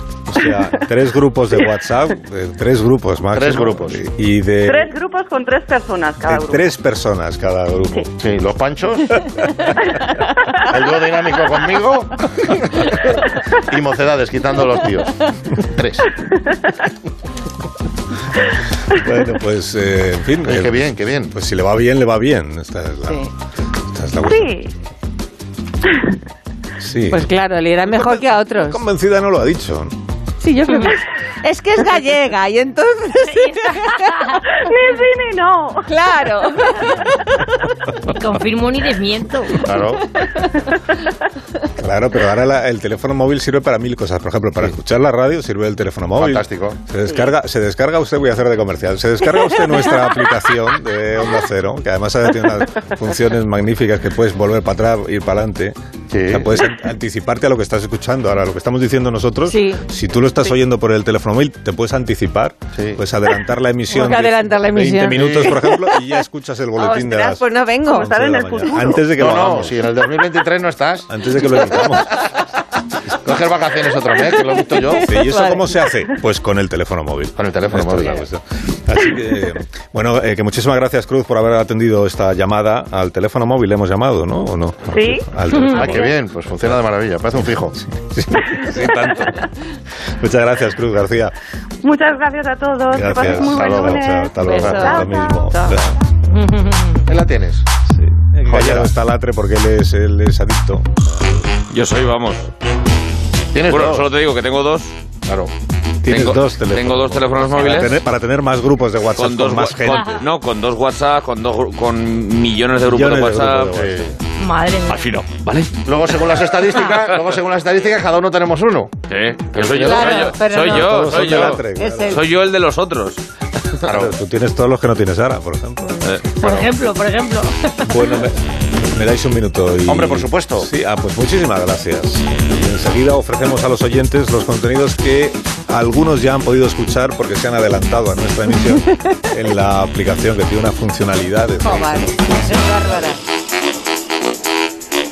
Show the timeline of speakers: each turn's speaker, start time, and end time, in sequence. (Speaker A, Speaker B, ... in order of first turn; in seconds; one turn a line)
Speaker A: 0.3-4.9
Speaker B: 3.3-4.0
Speaker C: 4.6-6.7
Speaker A: 6.2-8.1
Speaker B: 8.2-9.2
Speaker A: 9.4-9.8
Speaker B: 10.7-16.1
Speaker A: 18.9-23.2
Speaker B: 20.4-21.3
Speaker A: 23.9-24.5
Speaker C: 24.2-24.7
Speaker A: 26.8-27.2
Speaker D: 27.1-28.8
Speaker A: 27.9-29.9
Speaker D: 30.4-34.3
Speaker E: 33.4-34.4
Speaker C: 34.4-36.0
Speaker D: 35.9-37.7
Speaker E: 38.0-39.8
Speaker B: 39.6-40.0
Speaker A: 41.8-55.7
Speaker B: 46.2-46.8
Speaker B: 56.1-56.5
Speaker A: 56.3-69.7
Speaker D: 59.5-59.8
Speaker B: 62.7-63.0
Speaker D: 63.9-65.9
Speaker B: 65.1-65.5
Speaker D: 66.8-68.9
Speaker C: 68.0-68.9
Speaker B: 69.1-72.0
Speaker A: 71.1-72.1
Speaker B: 73.2-75.1
Speaker D: 75.0-75.7
Speaker A: 75.0-86.1
Speaker B: 77.3-78.2
Speaker C: 84.9-85.2
Speaker B: 85.7-87.8
Speaker A: 87.7-89.4
Speaker C: 88.4-89.2
Speaker A: 90.2-91.3
Speaker C: 91.8-95.0
Speaker A: 92.9-96.0
Speaker B: 93.4-94.0
Speaker D: 94.4-95.8
Speaker E: 96.4-97.0
Speaker B: 97.0-97.6
Speaker A: 97.9-101.0
Speaker B: 98.5-98.9
Speaker F: 101.7-102.5
Speaker B: 103.5-104.1
Speaker F: 103.6-104.9
Speaker B: 105.2-105.5
Speaker A: 106.0-110.2
Speaker F: 106.0-108.0
Speaker F: 109.2-113.8
Speaker E: 109.9-110.2
Speaker A: 112.9-114.1
Speaker B: 113.7-114.1
Speaker E: 114.4-115.1
Speaker B: 115.8-118.9
Speaker F: 119.1-123.2
Speaker B: 119.5-120.6
Speaker D: 119.8-122.2
Speaker A: 120.6-122.2
Speaker B: 123.8-124.2
Speaker A: 123.9-126.1
Speaker F: 126.0-126.3
Speaker E: 126.4-127.8
Speaker B: 126.4-126.7
Speaker A: 127.8-128.4
Speaker A: 128.9-142.0
Speaker B: 129.9-130.7
Speaker D: 141.6-143.2